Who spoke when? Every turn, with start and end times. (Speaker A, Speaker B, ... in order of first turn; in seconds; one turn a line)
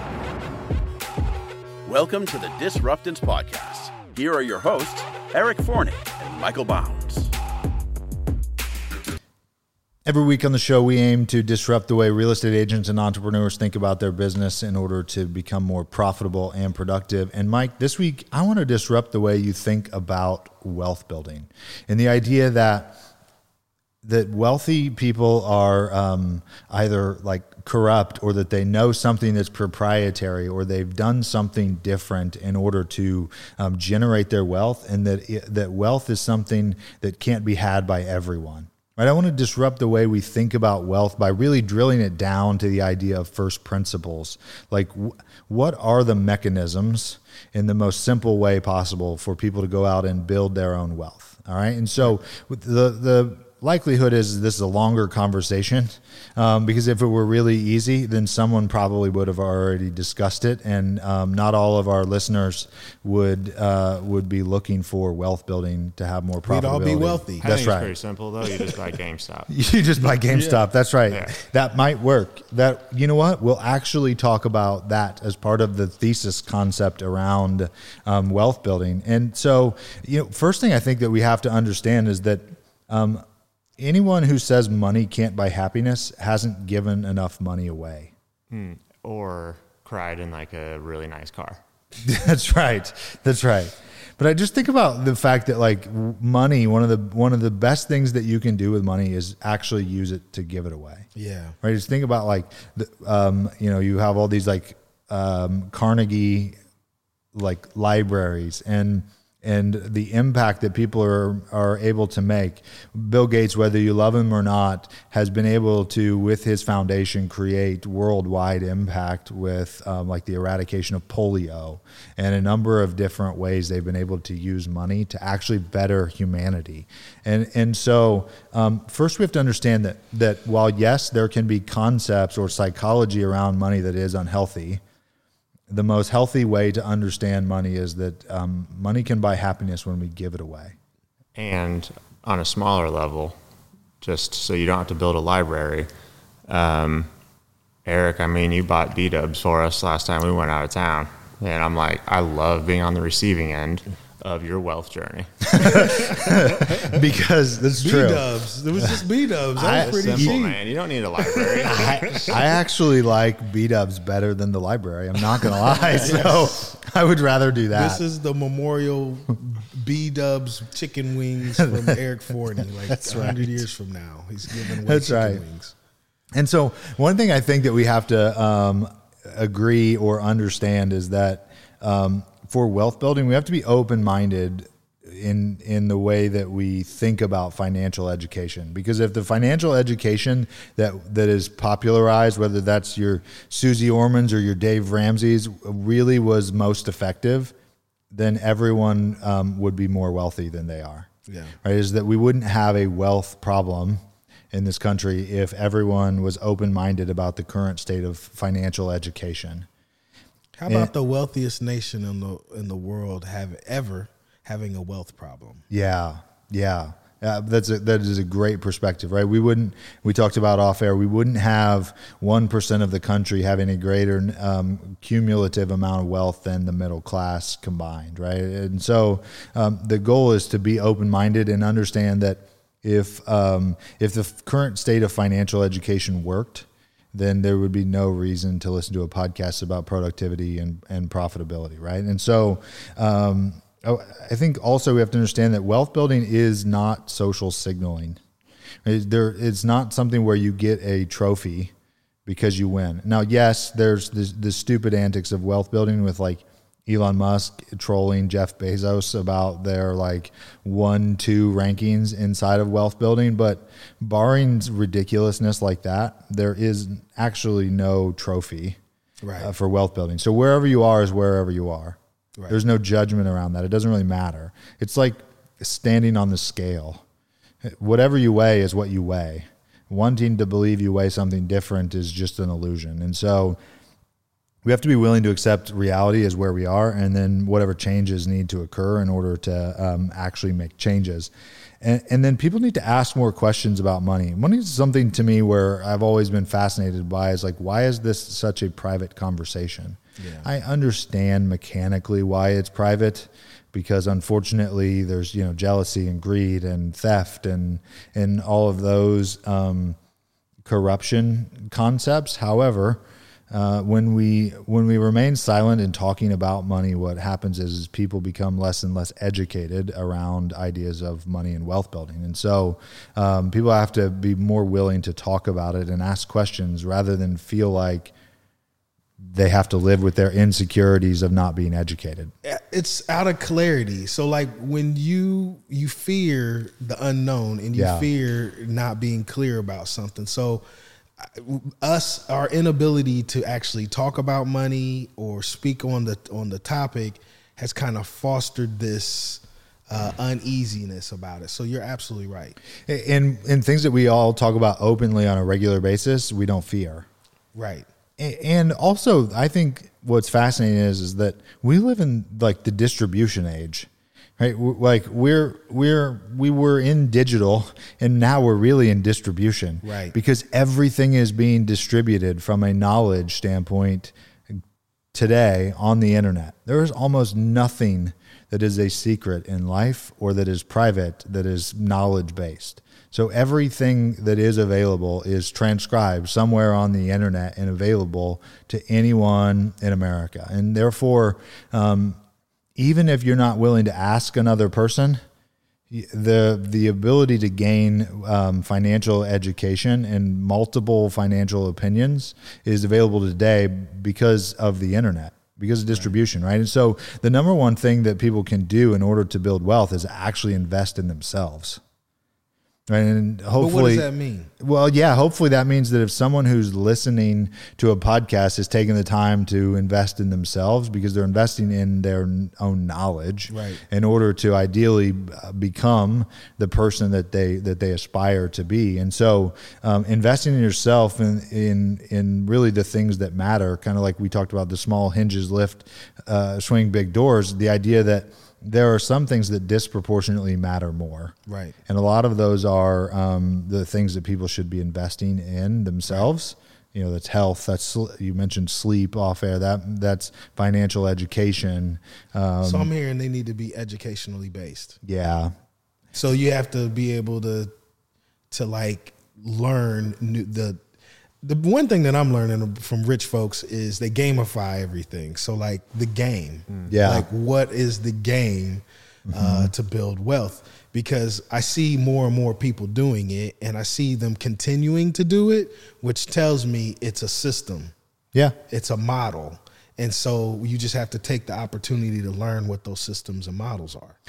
Speaker A: 1.8-7.3
Speaker B: 10.1-23.0
Speaker B: 24.0-67.9
Speaker C: 66.4-67.4
Speaker D: 67.4-69.5
Speaker B: 69.5-83.2
Speaker C: 70.3-70.6
Speaker D: 71.1-71.3
Speaker B: 83.8-88.1
Speaker D: 88.5-91.6
Speaker B: 92.0-101.1
Speaker C: 101.1-101.5
Speaker B: 101.6-106.5
Speaker B: 107.3-134.8
Speaker B: 135.7-140.7
Speaker D: 141.3-143.3
Speaker D: 144.0-145.9
Speaker D: 146.5-147.1
Speaker D: 147.8-156.0
Speaker B: 155.4-158.3
Speaker C: 157.8-160.6
Speaker B: 159.6-160.3
Speaker D: 159.7-162.5
Speaker C: 161.2-162.4
Speaker B: 161.7-168.0
Speaker C: 165.5-166.7
Speaker C: 167.7-175.7
Speaker B: 171.7-171.9
Speaker B: 172.8-173.6
Speaker B: 174.8-175.4
Speaker B: 176.3-197.5
Speaker B: 198.1-201.1
Speaker C: 201.3-201.5
Speaker B: 201.6-209.7
Speaker C: 210.6-215.6
Speaker B: 210.7-210.9
Speaker B: 215.7-248.2
Speaker B: 248.8-251.7
Speaker B: 252.2-268.8
Speaker C: 269.2-269.5
Speaker B: 269.4-272.0
Speaker B: 272.5-277.0
Speaker B: 277.6-283.6
Speaker B: 284.6-310.0
Speaker C: 300.2-300.5
Speaker B: 310.6-328.1
Speaker B: 329.2-332.3
Speaker C: 332.4-340.6
Speaker B: 337.7-338.1
Speaker C: 341.2-352.6
Speaker B: 352.9-357.1
Speaker C: 357.5-357.9
Speaker B: 358.2-363.9
Speaker B: 364.4-374.6
Speaker C: 369.8-370.1
Speaker B: 375.1-392.2
Speaker B: 392.8-395.2
Speaker B: 395.9-411.8
Speaker B: 412.9-414.1
Speaker C: 413.6-414.5
Speaker B: 414.6-441.3
Speaker C: 423.5-423.8
Speaker C: 441.4-441.8
Speaker B: 441.9-452.9
Speaker C: 452.6-455.0
Speaker B: 455.0-455.5
Speaker C: 456.1-457.7
Speaker C: 458.5-460.8
Speaker C: 461.4-477.9
Speaker B: 466.9-467.2
Speaker B: 469.3-469.7
Speaker C: 478.7-484.1